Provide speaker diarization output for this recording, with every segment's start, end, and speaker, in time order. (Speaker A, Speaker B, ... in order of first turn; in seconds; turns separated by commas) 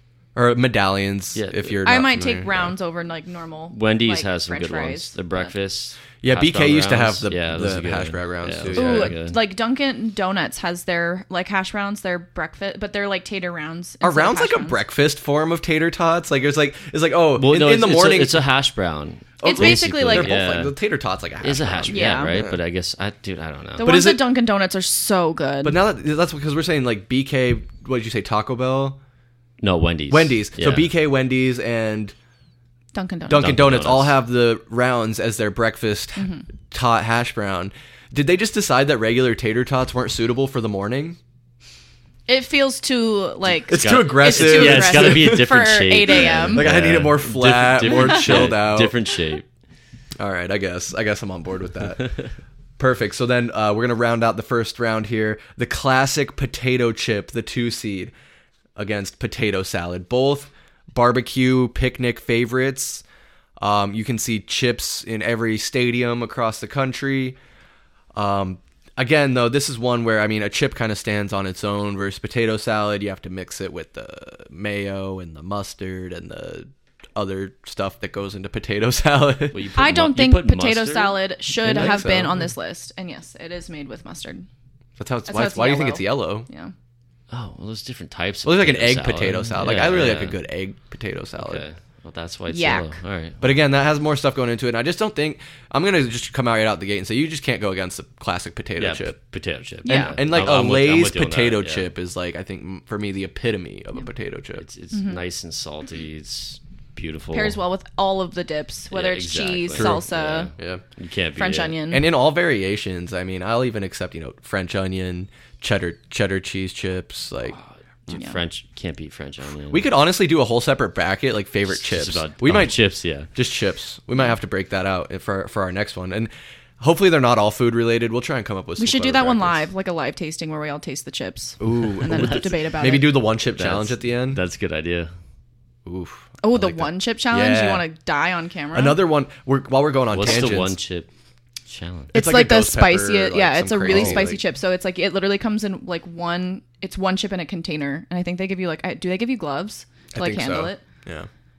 Speaker A: 0.3-2.7, Speaker B: 1.3-1.8, Speaker C: 1.8-5.5, Speaker B: 3.7-9.4, Speaker A: 6.2-9.1, Speaker C: 8.7-14.8, Speaker A: 14.0-18.4, Speaker B: 17.4-20.7, Speaker A: 19.4-22.6, Speaker C: 19.4-20.3, Speaker B: 21.4-23.9, Speaker C: 21.9-22.4, Speaker C: 23.8-25.8, Speaker A: 23.8-24.2, Speaker A: 25.6-29.0, Speaker B: 29.6-30.9, Speaker A: 30.1-32.1, Speaker C: 32.9-33.5, Speaker A: 33.3-41.2, Speaker B: 33.4-34.2, Speaker C: 36.2-36.4, Speaker C: 42.3-46.7, Speaker A: 43.7-45.5, Speaker B: 43.7-49.5, Speaker A: 46.1-48.9, Speaker A: 50.2-52.0, Speaker A: 52.8-58.1, Speaker A: 58.8-63.0, Speaker A: 63.6-67.4, Speaker A: 68.1-79.6, Speaker B: 79.5-82.4, Speaker C: 79.8-84.5, Speaker A: 81.7-82.4, Speaker A: 85.0-86.5, Speaker C: 85.3-86.7, Speaker B: 87.3-90.4, Speaker A: 88.4-91.6, Speaker B: 91.4-93.4, Speaker C: 92.5-93.0, Speaker A: 93.4-99.1, Speaker B: 98.8-101.9, Speaker C: 99.8-100.2, Speaker A: 99.9-104.6, Speaker B: 104.6-107.6, Speaker C: 104.9-105.2, Speaker C: 107.3-110.5, Speaker B: 108.9-111.8, Speaker A: 109.7-110.0, Speaker A: 110.6-110.8, Speaker C: 111.3-112.0, Speaker A: 111.9-117.6, Speaker B: 117.5-119.9, Speaker C: 118.1-118.4, Speaker A: 119.7-122.8, Speaker B: 121.7-123.3, Speaker A: 123.3-129.7, Speaker C: 128.8-133.2, Speaker A: 131.6-134.4, Speaker B: 132.1-132.5, Speaker B: 133.5-135.1, Speaker A: 135.8-137.8, Speaker C: 136.4-139.0, Speaker A: 138.7-140.8, Speaker B: 140.1-141.1, Speaker B: 141.7-142.1, Speaker A: 142.1-144.4, Speaker C: 142.1-150.8, Speaker B: 143.9-144.3, Speaker A: 150.1-151.3